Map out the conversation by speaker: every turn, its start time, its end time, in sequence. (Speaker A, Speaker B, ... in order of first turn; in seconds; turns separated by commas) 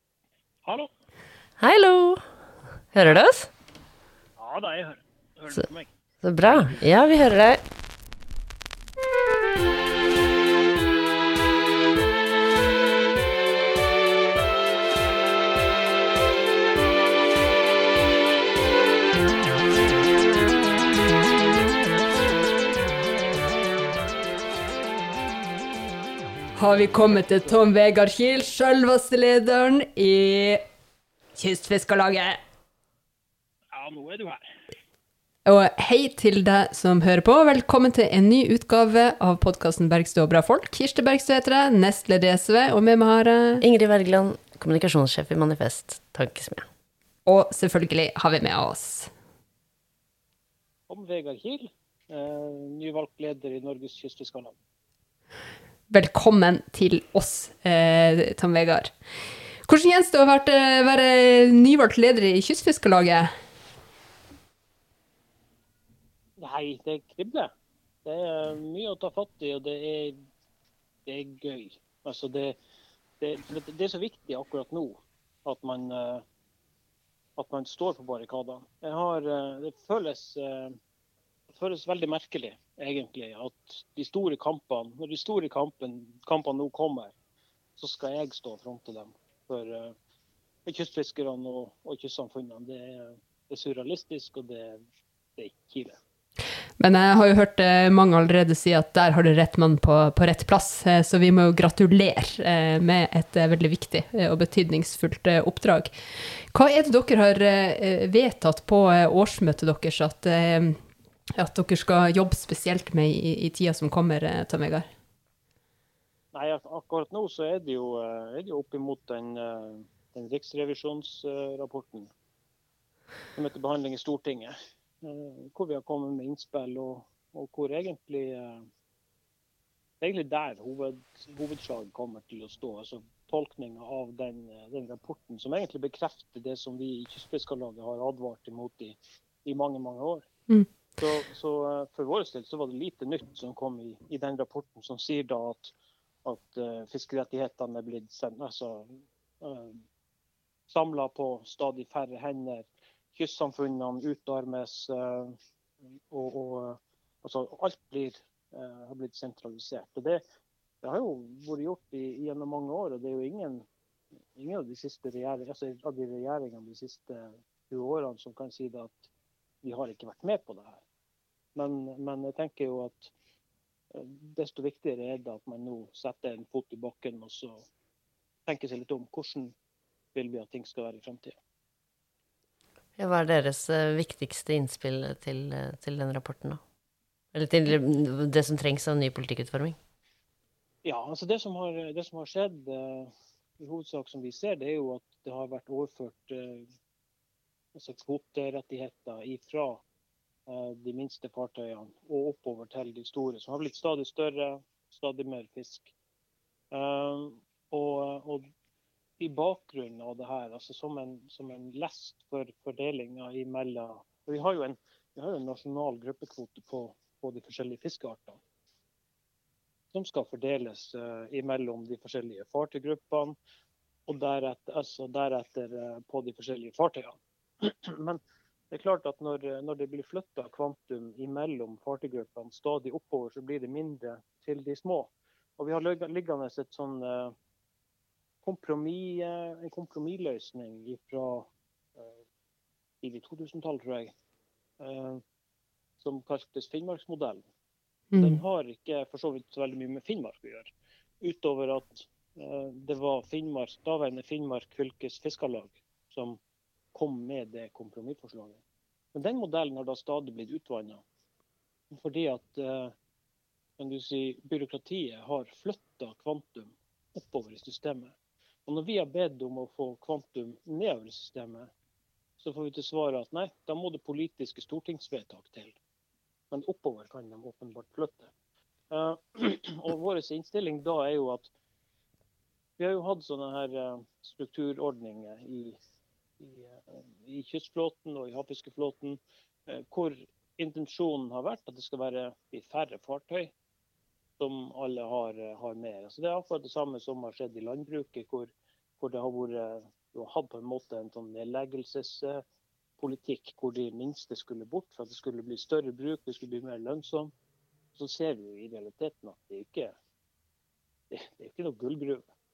Speaker A: 1.6-2.4, Speaker A: 2.9-3.5, Speaker B: 4.4-5.9, Speaker A: 6.2-7.6, Speaker B: 6.5-6.8, Speaker C: 26.6-30.6, Speaker C: 31.4-32.4, Speaker B: 33.7-34.6, Speaker C: 35.5-43.6, Speaker A: 43.6-46.7, Speaker C: 47.3-49.1, Speaker B: 50.9-54.5, Speaker C: 55.9-58.9, Speaker C: 59.6-63.3, Speaker B: 66.4-67.5, Speaker B: 68.0-70.2, Speaker B: 71.1-72.6, Speaker B: 73.2-76.2, Speaker B: 77.4-80.8, Speaker B: 81.5-87.1, Speaker B: 87.8-90.0, Speaker B: 90.7-94.8, Speaker B: 95.4-96.0, Speaker C: 96.8-105.9, Speaker C: 106.5-110.8, Speaker C: 111.4-114.9, Speaker B: 116.3-122.1, Speaker B: 123.4-128.7, Speaker B: 130.0-140.3, Speaker B: 141.0-145.7, Speaker B: 146.2-149.8, Speaker B: 150.7-155.4, Speaker B: 156.1-160.2, Speaker B: 160.8-163.7, Speaker B: 164.4-169.1, Speaker B: 169.6-170.8, Speaker B: 171.6-173.1, Speaker B: 173.9-177.6, Speaker B: 178.5-179.6, Speaker B: 180.1-181.4, Speaker A: 183.0-186.6, Speaker A: 187.3-189.8, Speaker B: 190.8-196.7, Speaker B: 197.8-199.8, Speaker B: 200.5-205.9, Speaker B: 206.7-208.5, Speaker B: 209.2-218.4, Speaker B: 219.9-223.4, Speaker B: 224.1-237.3, Speaker B: 238.4-242.2, Speaker B: 243.0-244.1, Speaker B: 244.8-245.2, Speaker B: 246.0-247.4, Speaker C: 248.1-248.4, Speaker B: 248.2-256.4, Speaker B: 256.9-258.6, Speaker B: 259.1-261.0, Speaker B: 261.9-262.9, Speaker B: 263.8-268.1, Speaker B: 268.7-271.7, Speaker B: 272.4-275.8, Speaker B: 276.5-278.3, Speaker B: 278.9-281.5, Speaker B: 282.8-285.8, Speaker B: 286.4-293.5, Speaker B: 294.4-302.4, Speaker B: 303.0-307.3, Speaker B: 307.9-309.9, Speaker B: 311.1-312.2